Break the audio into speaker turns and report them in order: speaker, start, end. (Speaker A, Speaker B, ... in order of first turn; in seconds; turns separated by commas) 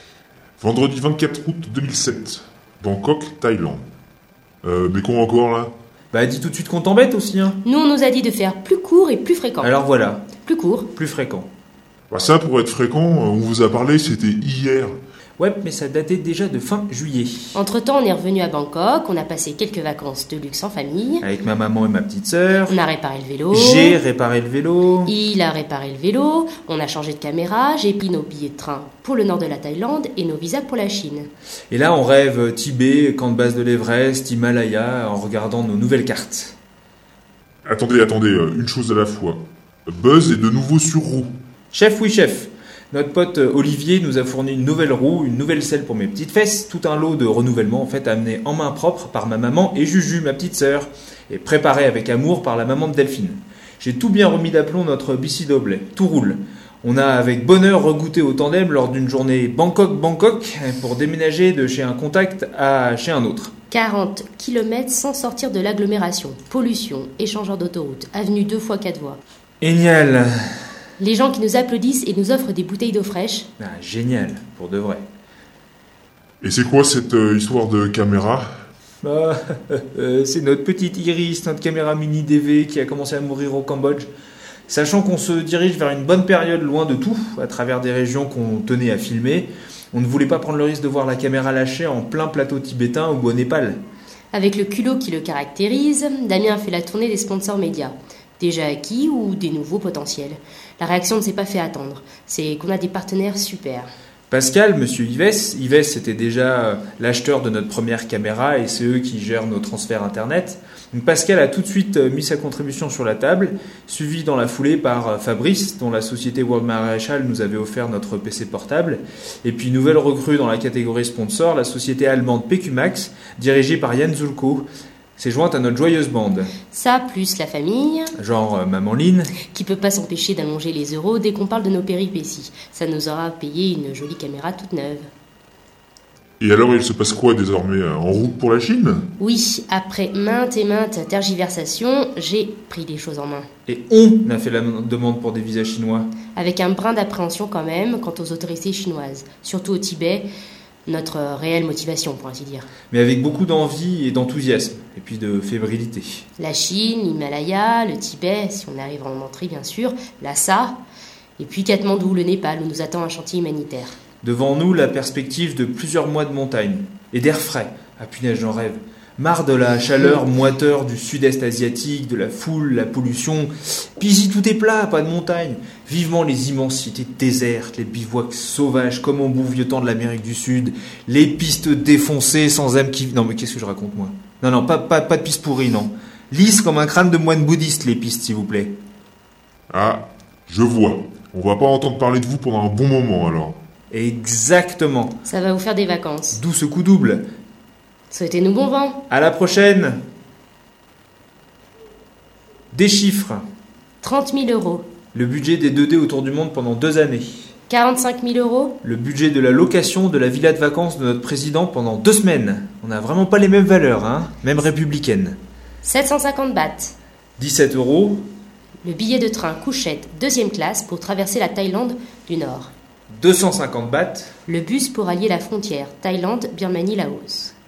Speaker A: 0.6-3.8, Speaker A: 4.6-5.7, Speaker B: 6.1-7.6, Speaker C: 7.6-9.8, Speaker B: 9.6-10.3, Speaker C: 10.4-10.9, Speaker B: 10.9-11.5, Speaker A: 12.1-15.0, Speaker B: 15.4-17.6, Speaker C: 17.6-21.3, Speaker B: 21.2-22.8, Speaker C: 22.7-24.0, Speaker B: 23.5-25.1, Speaker C: 25.1-31.3, Speaker B: 31.7-36.6, Speaker A: 37.7-41.3, Speaker B: 41.7-63.5, Speaker C: 63.7-69.2, Speaker B: 69.6-70.3, Speaker C: 71.0-73.5, Speaker B: 73.6-75.0, Speaker A: 76.4-78.5, Speaker B: 79.0-84.1, Speaker B: 84.7-93.8, Speaker C: 94.3-103.9, Speaker B: 104.3-124.7, Speaker B: 125.2-126.5, Speaker C: 126.7-128.2, Speaker B: 128.2-129.3, Speaker C: 129.4-135.1, Speaker A: 136.4-139.1, Speaker C: 139.2-143.5, Speaker B: 143.7-146.1, Speaker C: 146.3-150.3, Speaker C: 150.9-152.7, Speaker B: 152.9-156.2, Speaker C: 156.4-160.8, Speaker C: 161.4-164.0, Speaker B: 164.2-188.7, Speaker A: 189.7-193.6, Speaker B: 193.9-195.2, Speaker C: 195.2-196.4, Speaker B: 196.3-197.2, Speaker C: 198.1-199.0, Speaker B: 199.1-200.0, Speaker B: 202.7-203.4, Speaker C: 204.0-204.9, Speaker B: 205.1-207.5, Speaker C: 207.7-208.8, Speaker B: 208.8-215.4, Speaker C: 215.8-216.9, Speaker B: 217.4-218.2, Speaker C: 218.8-222.7, Speaker B: 223.1-224.3, Speaker C: 224.5-227.5